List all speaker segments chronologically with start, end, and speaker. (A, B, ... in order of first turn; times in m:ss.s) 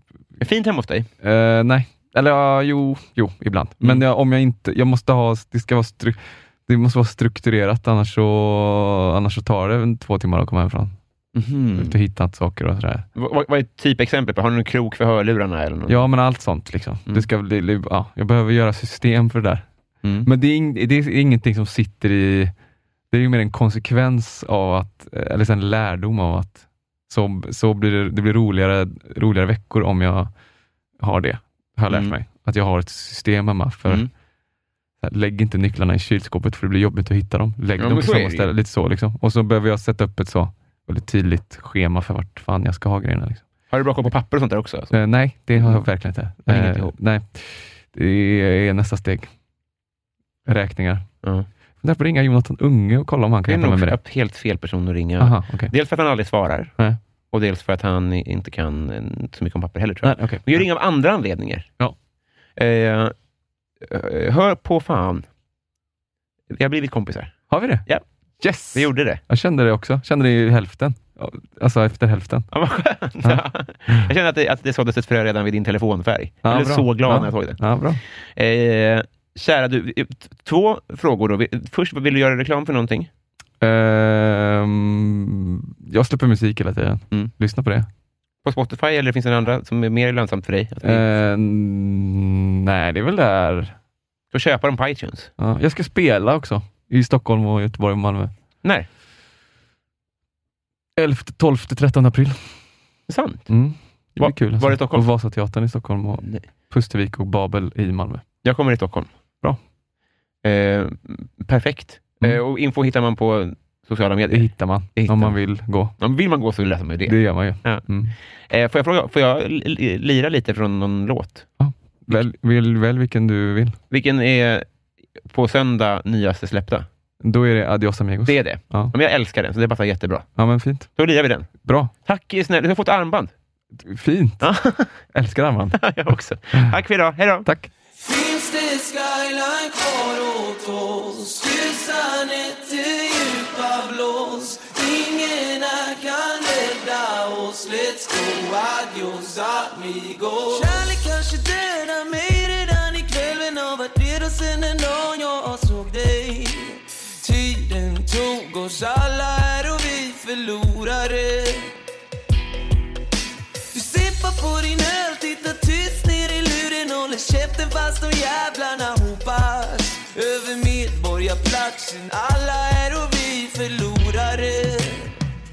0:00.4-0:01.1 A
0:01.2-0:10.9 B
0:11.3-0:11.9 A
0:11.7-0:13.0 B
0:13.2-0:16.0 A
0:15.9-0:19.6 B
0:20.2-0:22.5 B
0:23.1-0:30.3 B
0:31.0-0:34.1 B
0:35.0-0:43.4 B
0:37.8-0:38.5 A
0:43.7-0:44.9 A
0:44.9-0:49.3 B
0:45.6-0:45.8 A
0:46.5-0:46.9 A
0:50.5-0:51.0 B
0:51.8-0:54.0 B
0:53.5-0:56.7 A
0:55.2-0:55.7 B
0:57.3-1:01.7 A
1:00.0-1:00.7 B
1:02.6-1:03.1 A
1:03.8-1:05.2 A
1:06.5-1:08.0 A
1:07.5-1:07.9 B
1:08.4-1:12.5 B
1:08.7-1:09.2 A
1:12.5-1:17.6 A
1:13.2-1:14.1 B
1:16.4-1:18.0 B
1:18.3-1:23.1 A
1:23.6-1:27.9 B
1:28.4-1:31.2 A
1:30.8-1:33.7 B
1:34.3-1:35.3 A
1:35.4-1:38.3 B
1:41.0-1:42.5 B
1:43.1-1:43.5 A
1:43.5-1:48.2 B
1:44.2-1:45.0 A
1:48.4-1:49.1 A
1:50.4-1:55.4 A
1:54.3-1:55.9 B
1:56.0-1:57.8 A
1:57.0-1:58.1 B
1:58.5-2:01.4 A
2:01.6-2:03.8 B
2:03.9-2:04.6 A
2:05.2-2:06.9 A
2:07.2-2:08.9 B
2:08.3-2:10.3 A
2:10.4-2:10.9 B
2:11.0-2:11.5 A
2:11.6-2:11.9 B
2:12.0-2:13.3 A
2:13.8-2:14.5 B
2:14.4-2:15.0 A
2:15.1-2:15.9 B
2:15.8-2:17.5 A
2:17.4-2:17.7 B
2:17.9-2:41.7 C
2:43.7-2:55.1 C